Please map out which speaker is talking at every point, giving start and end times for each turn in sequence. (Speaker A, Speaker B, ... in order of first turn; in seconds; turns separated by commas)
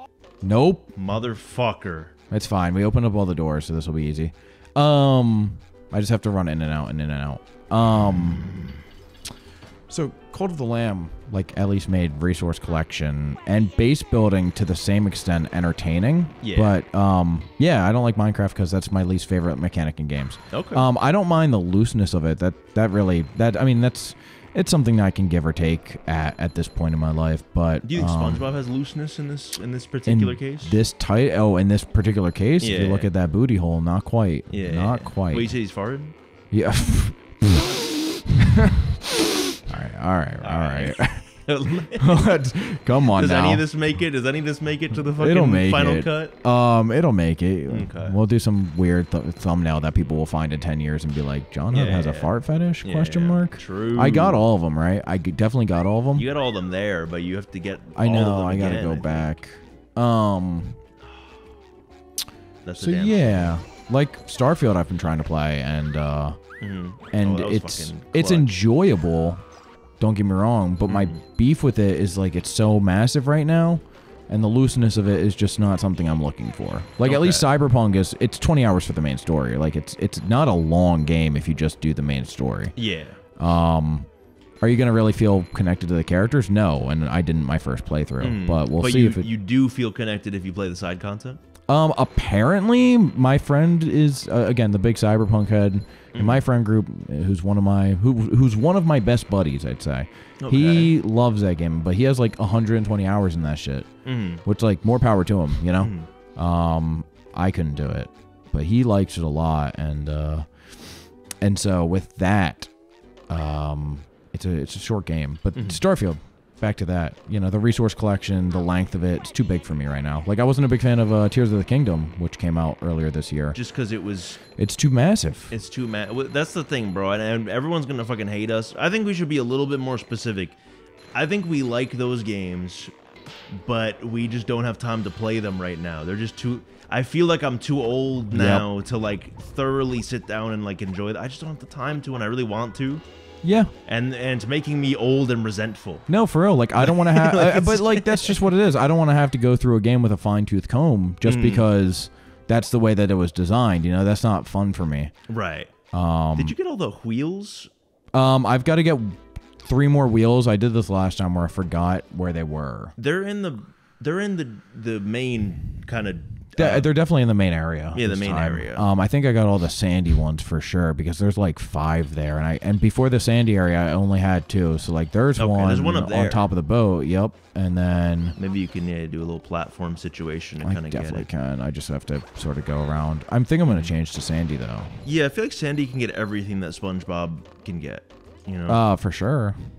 Speaker A: 0.4-0.9, Speaker B: 0.9-2.1, Speaker A: 2.3-8.4, Speaker B: 8.4-8.8, Speaker A: 9.9-28.4, Speaker B: 16.4-16.8, Speaker B: 20.5-20.9, Speaker B: 27.8-30.8, Speaker A: 30.1-35.6, Speaker B: 32.6-33.1, Speaker B: 34.5-36.1, Speaker A: 36.5-38.7, Speaker A: 39.7-41.4, Speaker B: 40.4-42.3, Speaker A: 42.0-43.6, Speaker B: 43.1-46.4, Speaker A: 45.2-56.3, Speaker B: 47.7-48.2, Speaker B: 51.7-54.5, Speaker B: 56.1-59.3, Speaker A: 58.0-60.8, Speaker B: 62.6-63.6, Speaker A: 62.8-66.4, Speaker B: 66.6-68.5, Speaker A: 67.1-69.4, Speaker A: 70.0-82.8, Speaker B: 70.8-71.2, Speaker B: 77.0-77.5, Speaker B: 82.8-83.2, Speaker A: 83.4-84.1, Speaker A: 84.6-89.3, Speaker B: 88.2-91.4, Speaker A: 91.7-103.9, Speaker B: 96.1-96.5, Speaker B: 100.4-100.9, Speaker B: 104.0-104.4, Speaker A: 104.5-112.7, Speaker B: 105.8-106.1, Speaker A: 113.3-123.6, Speaker B: 115.5-115.8, Speaker B: 123.5-124.4, Speaker A: 124.6-125.5, Speaker B: 125.5-130.6, Speaker B: 131.1-132.9, Speaker B: 133.5-143.0, Speaker A: 138.3-138.7, Speaker A: 143.4-143.7, Speaker B: 143.8-146.1, Speaker A: 146.1-155.1, Speaker B: 146.8-148.4, Speaker B: 151.2-151.7, Speaker B: 155.3-155.7, Speaker A: 155.9-156.6, Speaker B: 156.4-157.7, Speaker A: 158.1-162.9, Speaker B: 163.0-166.9, Speaker A: 166.6-178.4, Speaker B: 167.9-168.9, Speaker B: 175.4-176.4, Speaker B: 178.4-181.3, Speaker A: 180.6-185.0, Speaker B: 183.7-183.9, Speaker B: 185.0-188.8, Speaker A: 188.7-189.6